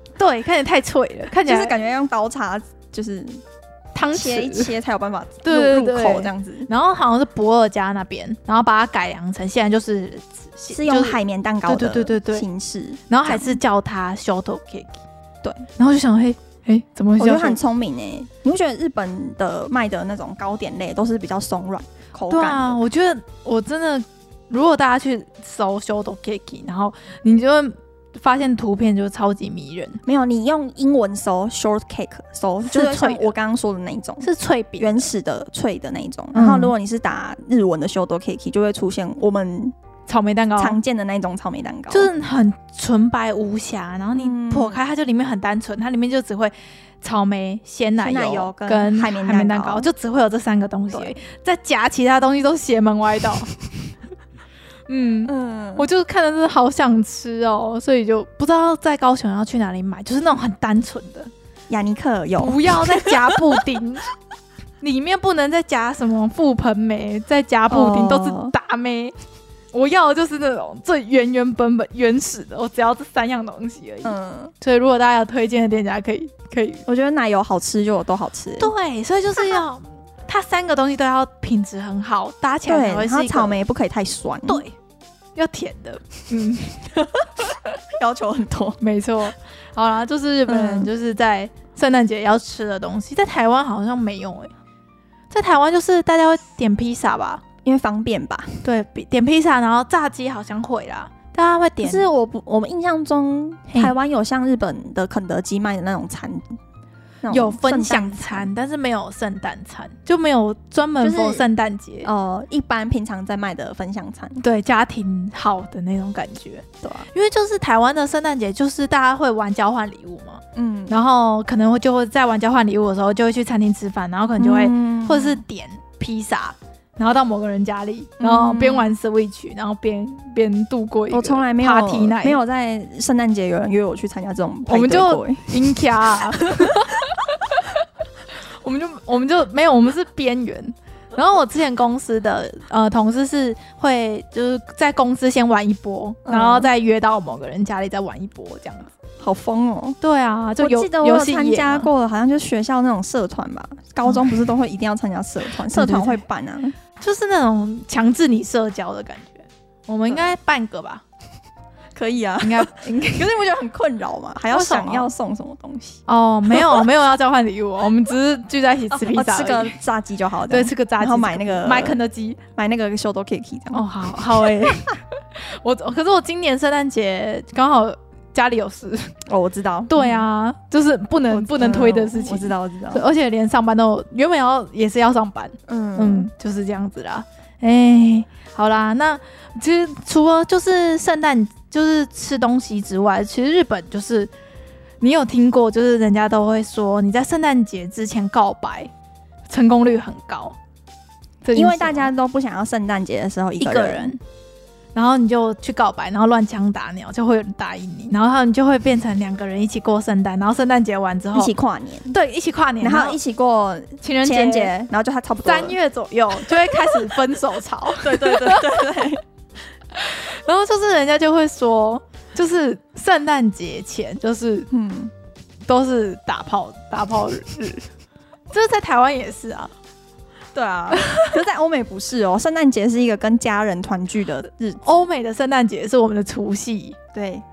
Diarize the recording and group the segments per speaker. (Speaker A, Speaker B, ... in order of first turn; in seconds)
Speaker A: 0.2-1.7, 3.9-4.7, 5.4-12.4, 13.1-15.0, 15.8-17.6, 22.3-30.0, 32.7-33.3, 34.2-35.1, 36.3-36.7, 40.1-40.8, 41.9-53.5, 54.9-61.3, 62.4-64.1, 64.8-69.2, 69.7-76.8, 78.6-83.6, 84.5-84.7, 85.4-86.9, 88.8-94.5, 95.3-97.4, 98.6-102.1, 103.7-103.9, 107.3-112.1, 114.4-132.4, 134.7-137.8, 138.6-148.9, 150.0-151.9, 155.7-156.2, 157.0-161.0, 162.4-163.3, 164.5-165.1, 166.1-169.8, 170.5-172.4, 173.7-179.2, 179.9-194.3, 195.0-198.9, 199.5-200.6, 201.4-202.1, 203.6-204.2, 204.9-211.5, 212.1-213.2, 214.0-214.7, 215.4-219.0, 219.9-224.7, 225.7-227.9, 228.5-229.7, 231.0-231.3, 234.8-237.0
Speaker B: 1.4-3.4, 4.1-6.7, 10.7-13.6, 17.2-22.8, 30.1-39.8, 40.6-42.1, 44.1-44.8, 48.0-49.9, 50.9-51.2, 55.3-55.9, 61.7-63.5, 67.7-68.5, 74.0-74.5, 76.9-78.7, 82.7-84.7, 88.0-88.8, 90.5-90.9, 97.6-98.6, 101.8-106.6, 107.2-108.5, 111.0-111.5, 112.0-114.4, 116.8-117.1, 120.5-121.0, 124.4-125.4, 128.2-128.9, 131.1-136.9, 146.2-146.7, 149.2-150.0, 150.6-156.8, 161.9-166.8, 168.9-172.0, 172.6-173.8, 179.3-180.2, 181.3-183.1, 185.7-186.3, 201.5-204.2, 211.3-212.2, 212.8-215.8, 216.5-217.0, 218.0-219.2, 224.7-225.1, 230.5-235.0, 237.1-237.4